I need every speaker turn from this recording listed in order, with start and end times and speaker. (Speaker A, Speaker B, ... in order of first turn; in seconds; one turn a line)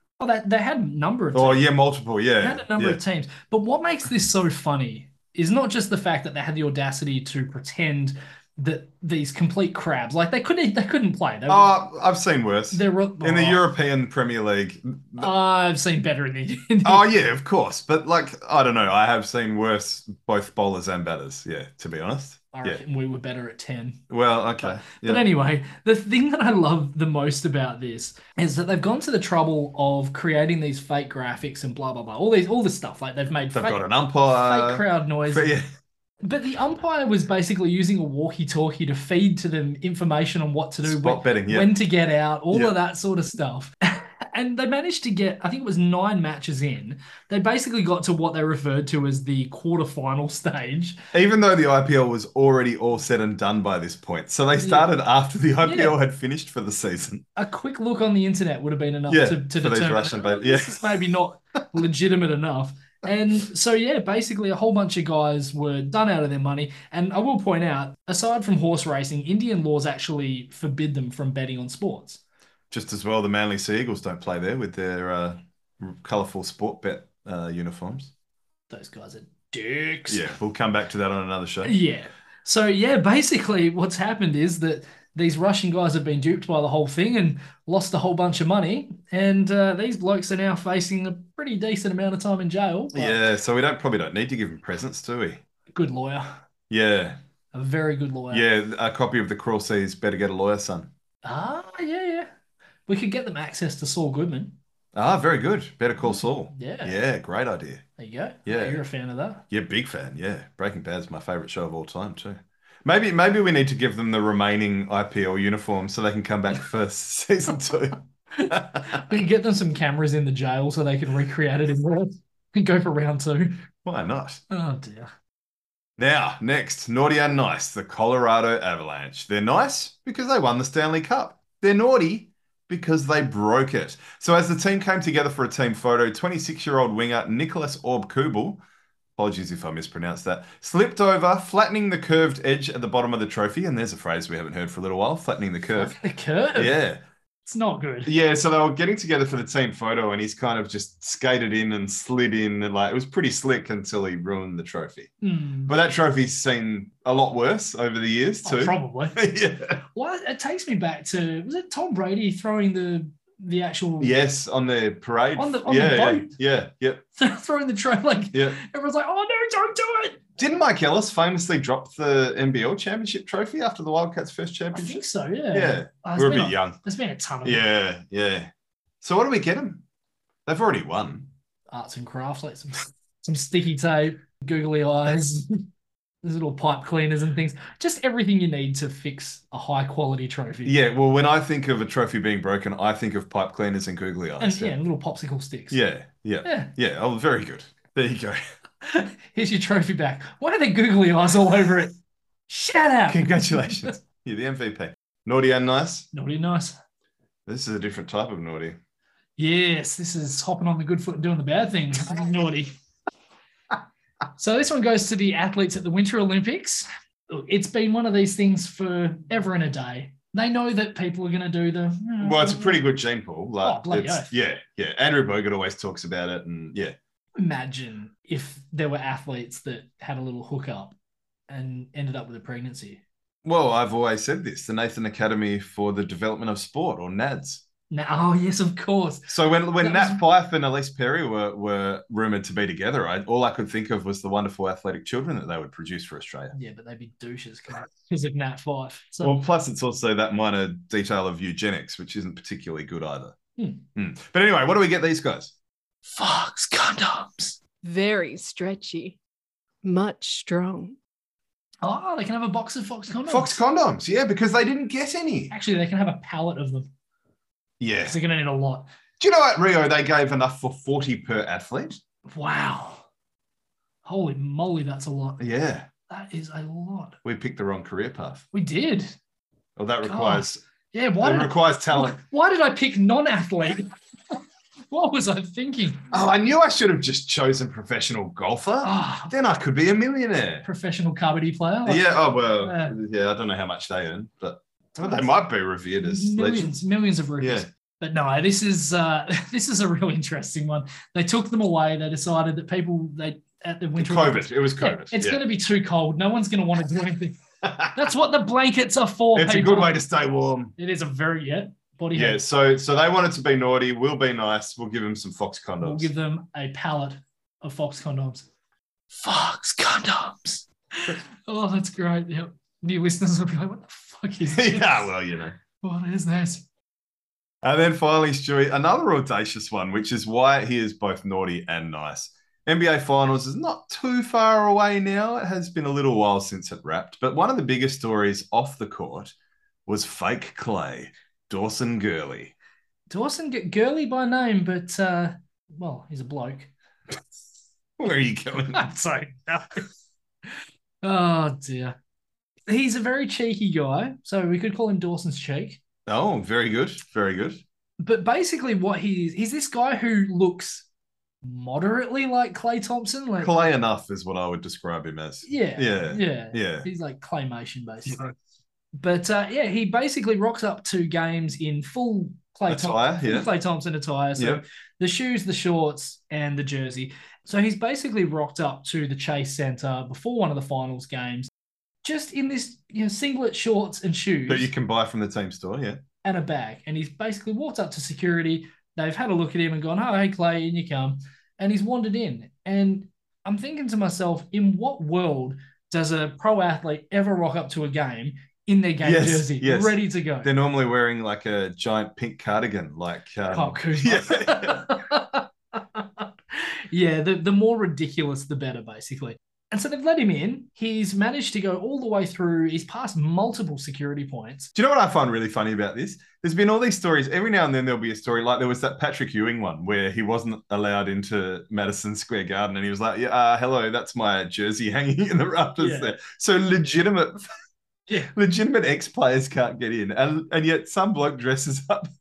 Speaker A: 0.2-1.6
Speaker B: 1.3-3.0
Speaker A: 2.4-11.7
Speaker B: 11.5-15.3
Speaker A: 12.7-13.6
Speaker A: 15.2-17.1
Speaker B: 16.8-22.8
Speaker A: 22.5-24.0
Speaker B: 24.1-25.2
Speaker A: 24.6-33.8
Speaker B: 33.5-35.6
Speaker A: 34.3-35.5
Speaker A: 36.2-51.0
Speaker B: 40.8-41.7
Speaker B: 51.1-57.2
Speaker A: 54.6-54.9
Speaker A: 55.6-55.9
Speaker A: 57.4-72.2
Speaker B: 59.1-60.9
Speaker B: 72.7-78.1
Speaker A: 78.7-80.3
Speaker B: 80.1-81.8
Speaker A: 81.6-93.2
Speaker B: 92.9-95.4
Speaker A: 95.7-96.4
Speaker B: 96.7-97.2
Speaker A: 97.5-98.4
Speaker B: 98.3-100.9
Speaker A: 101.2-102.3
Speaker A: 102.9-104.5
Speaker B: 104.9-107.8
Speaker A: 106.0-107.0
Speaker A: 108.0-109.4
Speaker B: 108.5-108.8
Speaker B: 109.5-119.0
Speaker A: 118.4-123.6
Speaker B: 123.8-124.4
Speaker A: 124.5-125.1
Speaker B: 126.0-138.6
Speaker B: 139.2-145.9
Speaker A: 145.7-146.7
Speaker B: 146.5-147.0
Speaker A: 147.4-148.1
Speaker B: 148.1-155.1
Speaker A: 155.2-155.7
Speaker B: 155.7-159.8
Speaker A: 158.4-159.2
Speaker A: 159.9-164.1
Speaker B: 164.0-167.0
Speaker A: 165.4-166.3
Speaker A: 167.2-170.2
Speaker B: 168.3-168.6
Speaker B: 170.4-175.0
Speaker A: 174.7-177.7
Speaker B: 175.5-176.8
Speaker B: 177.4-178.5
Speaker B: 179.0-179.8
Speaker B: 180.4-181.3
Speaker A: 181.7-185.7
Speaker A: 186.2-190.7
Speaker B: 190.6-194.7
Speaker A: 194.4-195.8
Speaker B: 195.7-198.4
Speaker A: 196.4-196.7
Speaker A: 198.8-201.9
Speaker A: 202.5-203.9
Speaker B: 203.1-206.1
Speaker A: 206.1-206.8
Speaker B: 207.4-208.8
Speaker A: 209.4-212.7
Speaker A: 214.4-222.8
Speaker B: 222.2-226.9
Speaker A: 223.6-224.3
Speaker A: 227.4-230.9
Speaker A: 231.5-233.0
Speaker B: 233.4-237.6
Speaker A: 237.9-240.2
Speaker B: 239.3-246.5
Speaker A: 246.5-249.4
Speaker B: 249.2-253.3
Speaker A: 253.6-253.8
Speaker B: 253.9-255.5
Speaker A: 256.1-257.6
Speaker C: 257.8-259.2
Speaker C: 259.8-261.0
Speaker A: 261.8-263.6
Speaker B: 263.3-265.5
Speaker A: 265.5-266.9
Speaker B: 267.8-268.1
Speaker A: 268.0-268.9
Speaker B: 269.2-272.0
Speaker A: 272.3-273.1
Speaker A: 274.0-275.4
Speaker B: 275.4-275.9
Speaker A: 276.1-277.2
Speaker B: 277.2-278.4
Speaker A: 278.5-279.1
Speaker B: 279.8-280.6
Speaker A: 280.0-284.4
Speaker B: 281.2-282.2
Speaker A: 284.9-286.1
Speaker B: 286.1-290.6
Speaker A: 288.8-289.3
Speaker A: 290.6-292.9
Speaker B: 291.8-296.7
Speaker A: 294.9-295.3
Speaker A: 296.0-310.0
Speaker B: 297.4-297.7
Speaker B: 304.0-305.4
Speaker B: 307.6-308.1
Speaker B: 309.3-310.7
Speaker A: 310.8-312.4
Speaker B: 312.1-316.1
Speaker A: 315.8-318.5
Speaker A: 319.1-325.1
Speaker B: 324.5-325.6
Speaker A: 325.8-326.6
Speaker B: 327.6-339.3
Speaker B: 339.9-342.5
Speaker A: 343.1-346.7
Speaker B: 348.0-348.8
Speaker A: 348.7-349.9
Speaker A: 351.0-351.9
Speaker A: 352.7-355.8
Speaker B: 356.1-357.6
Speaker A: 358.0-360.9
Speaker A: 361.4-363.6
Speaker B: 363.4-366.9
Speaker A: 365.4-368.3
Speaker A: 369.0-381.5
Speaker B: 372.7-373.5
Speaker B: 374.4-374.6
Speaker A: 382.0-384.7
Speaker B: 384.5-386.0
Speaker A: 386.2-400.5
Speaker B: 399.0-404.9
Speaker A: 403.5-414.7
Speaker B: 414.7-427.5
Speaker A: 425.8-426.2
Speaker B: 428.3-432.1